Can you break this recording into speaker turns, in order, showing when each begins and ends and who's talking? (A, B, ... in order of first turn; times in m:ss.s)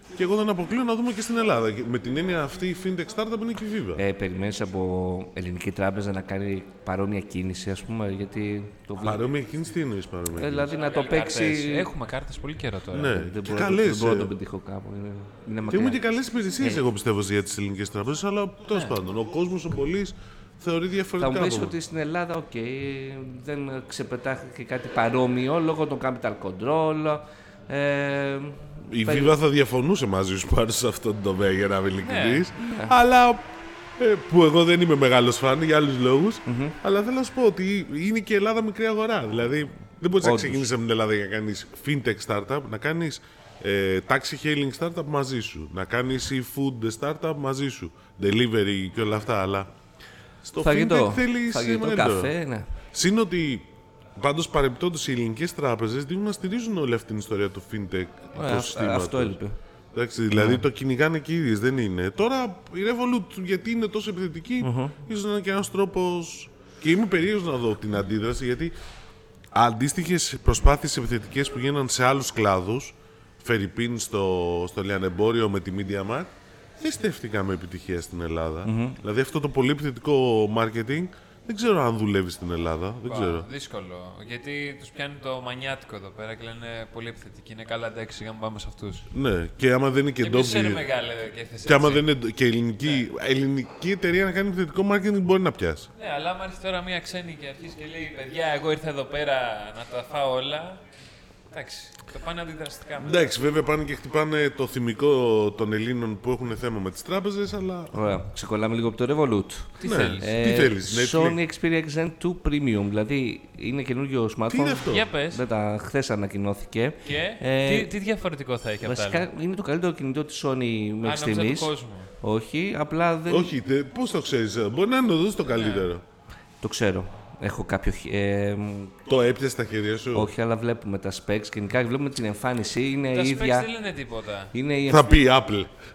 0:00.2-0:04.0 A
0:04.0-0:09.2 B
0:09.0-0:10.7 A
0:10.3-0:11.9 B
0:10.7-0:13.2 C
0:12.9-0:14.3 A
0:13.1-0:16.0 B
0:15.7-0:21.8 A
0:21.2-0:29.3 B
0:28.9-0:49.7 A
0:32.0-0:32.5 C
0:32.6-0:33.0 B
0:36.5-0:36.8 B
0:40.2-0:40.7 B
0:50.4-0:52.3 A
0:50.6-0:52.7 B
0:52.9-0:53.7 A
0:54.2-0:59.4 A
0:58.4-0:59.6 B
0:59.9-1:08.7 A
1:00.3-1:00.6 B
1:04.6-1:05.0 B
1:09.5-1:23.5 A
1:18.6-1:19.0 B
1:23.1-1:29.1 C
1:29.1-1:30.8 A
1:30.2-1:32.0 C
1:31.6-1:35.9 A
1:36.0-1:40.8 C
1:41.5-1:43.2 C
1:43.0-1:47.9 A
1:47.9-1:57.9 B
1:49.8-1:50.3 C
1:49.8-1:51.4 A
1:54.5-1:55.1 A
1:54.9-1:55.4 C
1:57.0-1:59.3 C
1:58.8-2:03.5 B
2:01.0-2:02.1 C
2:03.3-2:06.0 A
2:05.6-2:05.9 C
2:06.6-2:09.0 B
2:09.1-2:10.3 A
2:10.1-2:13.7 B
2:13.1-2:14.5 C
2:14.5-2:15.2 B
2:14.9-2:15.7 A